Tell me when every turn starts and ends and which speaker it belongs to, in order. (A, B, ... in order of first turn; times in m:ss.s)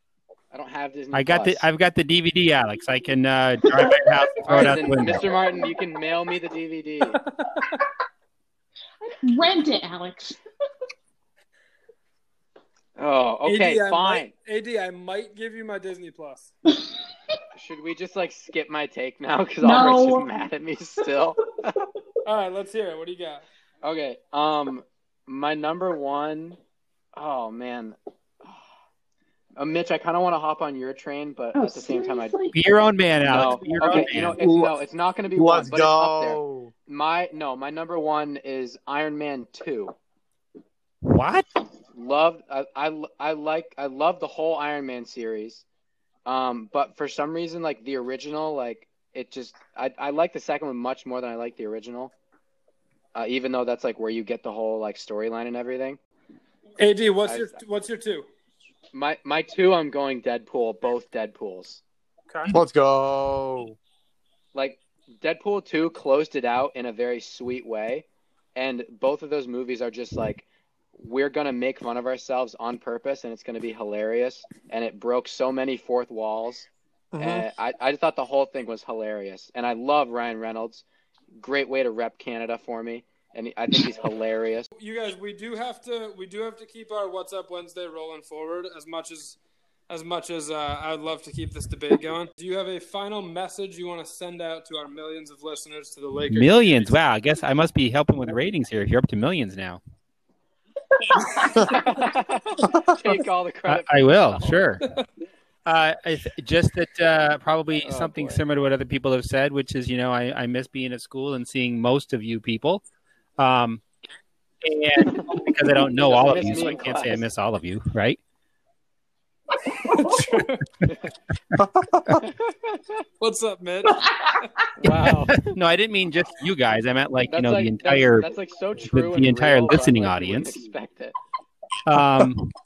0:00.5-0:01.7 A
0:01.1-0:05.2 B
0:04.5-0:07.2 A
0:09.0-0:10.4 C
0:13.0-0:14.3 A
0:13.4-0:16.5 D
0:17.6-0:21.8 A
0:19.6-0:20.4 C
0:22.2-0:23.4 D
0:23.8-0:26.6 A
0:27.2-0:28.6 A
0:29.6-0:32.4 A
0:31.5-0:32.6 C
0:32.5-0:34.4 B
0:33.3-0:40.0 A
0:34.1-0:34.8 E
0:35.3-0:36.7 E
0:41.1-0:41.5 B
0:41.9-0:45.6 A
0:46.3-0:52.1 A
0:53.2-0:56.0 A
0:56.8-0:58.3 D
0:57.2-0:57.6 A
0:58.9-1:01.8 A
1:02.5-1:03.8 E
1:04.5-1:24.7 A
1:17.1-1:17.5 E
1:24.8-1:29.4 D
1:29.9-1:37.0 D
1:36.3-1:39.8 B
1:41.4-1:44.7 A
1:43.7-1:44.8 B
1:45.7-1:52.8 B
1:47.8-1:48.4 A
1:53.4-1:53.8 B
1:54.6-1:58.2 B
1:56.0-1:57.3 A
1:59.8-2:00.7 D
2:01.6-2:02.2 E
2:02.2-2:03.0 A
2:03.2-2:04.5 D
2:04.0-2:04.4 C
2:04.8-2:05.5 A
2:05.0-2:08.3 B
2:07.3-2:11.2 A
2:08.8-2:10.6 B
2:11.8-2:12.5 B